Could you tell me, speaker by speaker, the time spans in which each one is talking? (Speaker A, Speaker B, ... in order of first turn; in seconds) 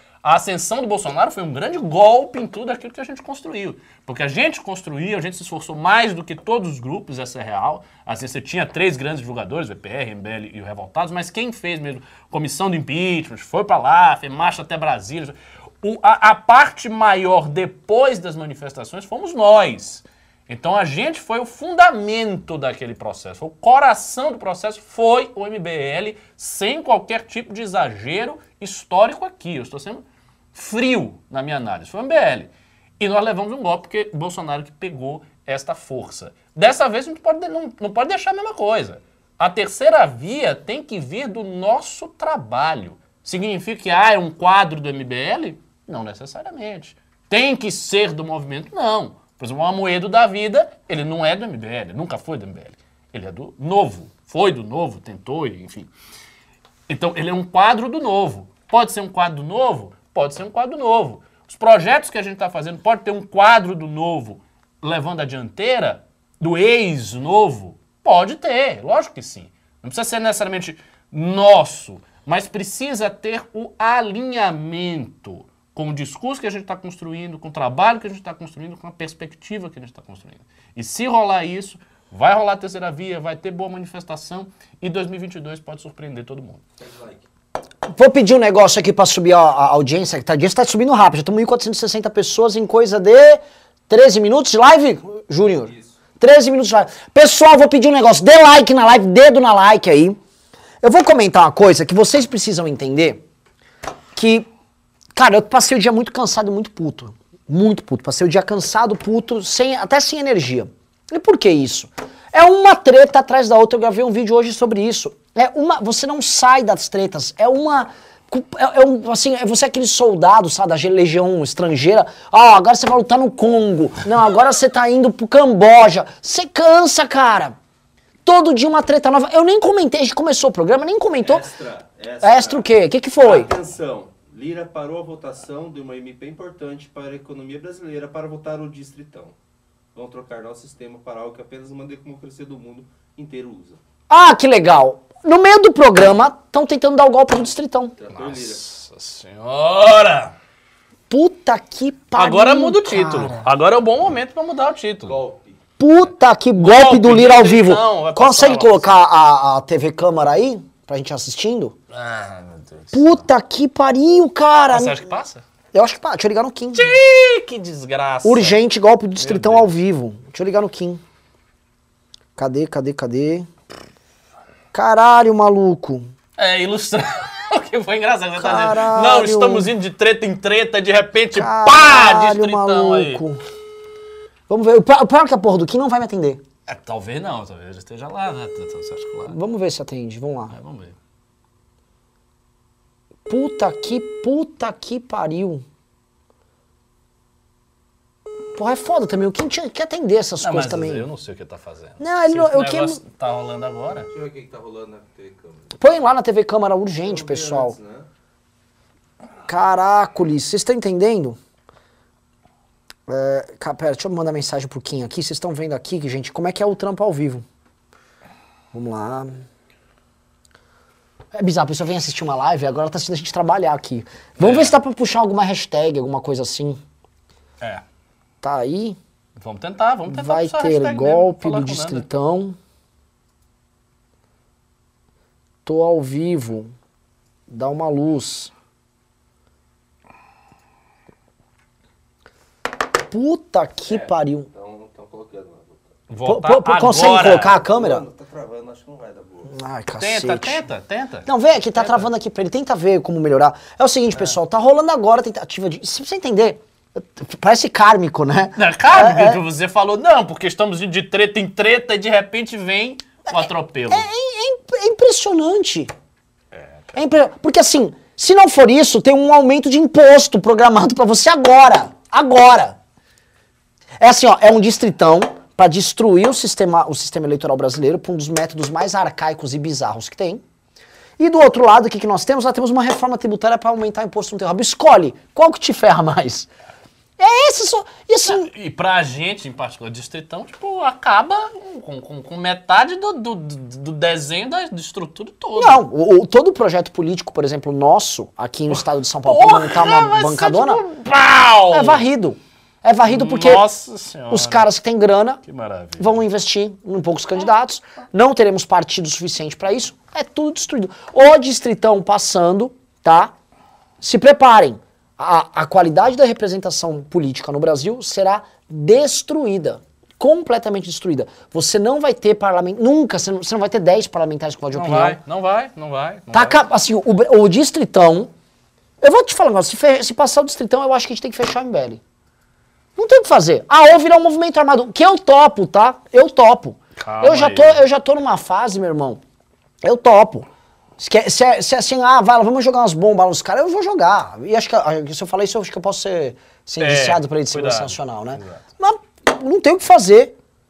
Speaker A: 0.2-55.9, 56.9-86.6, 148.1-150.3, 152.1-155.2, 156.6-159.0, 161.9-163.2, 164.7-165.4, 166.7-168.6, 169.2-169.7, 176.4-183.2, 186.7-189.4, 190.5-190.9, 200.4-204.1, 224.4-224.8, 229.4-232.1, 246.1-247.6, 250.0-252.1, 258.6-264.1, 288.2-295.8, 299.2-302.0, 303.0-304.7, 305.4-306.2, 324.7-326.6, 337.0-337.8, 346.8-348.6
Speaker B: 86.8-87.2, 95.6-96.0, 131.2-132.7, 133.2-139.3, 139.9-143.8, 148.0-148.7, 155.1-155.6, 204.1-205.7, 206.9-208.1, 243.8-245.9, 247.3-249.6
Speaker C: 87.8-100.2, 100.8-103.2, 104.1-104.5, 105.1-127.5, 128.2-131.5, 132.2-133.5, 144.1-147.9, 151.1-153.5, 155.8-161.7, 162.9-165.0, 165.7-166.9, 168.2-171.0, 172.4-173.5, 174.7-176.1, 178.4-179.7, 181.3-183.4, 184.5-186.4, 189.3-190.5, 193.3-195.6, 198.5-201.0, 202.0-203.0, 205.8-207.7, 209.5-211.4, 213.1-217.4, 218.7-219.4, 221.3-226.8, 228.4-229.0, 230.1-232.6, 235.7-236.7, 237.5-238.5, 243.1-244.5, 246.2-248.0, 249.5-250.6, 251.2-259.4, 263.3-265.9, 266.9-272.8, 274.0-280.4, 281.2-286.5, 287.2-288.5, 295.6-300.8, 301.7-303.6, 304.3-305.4, 306.0-313.3, 314.0-325.2, 326.3-328.3, 329.0-332.0, 332.9-339.2, 339.8-340.5, 341.0-350.3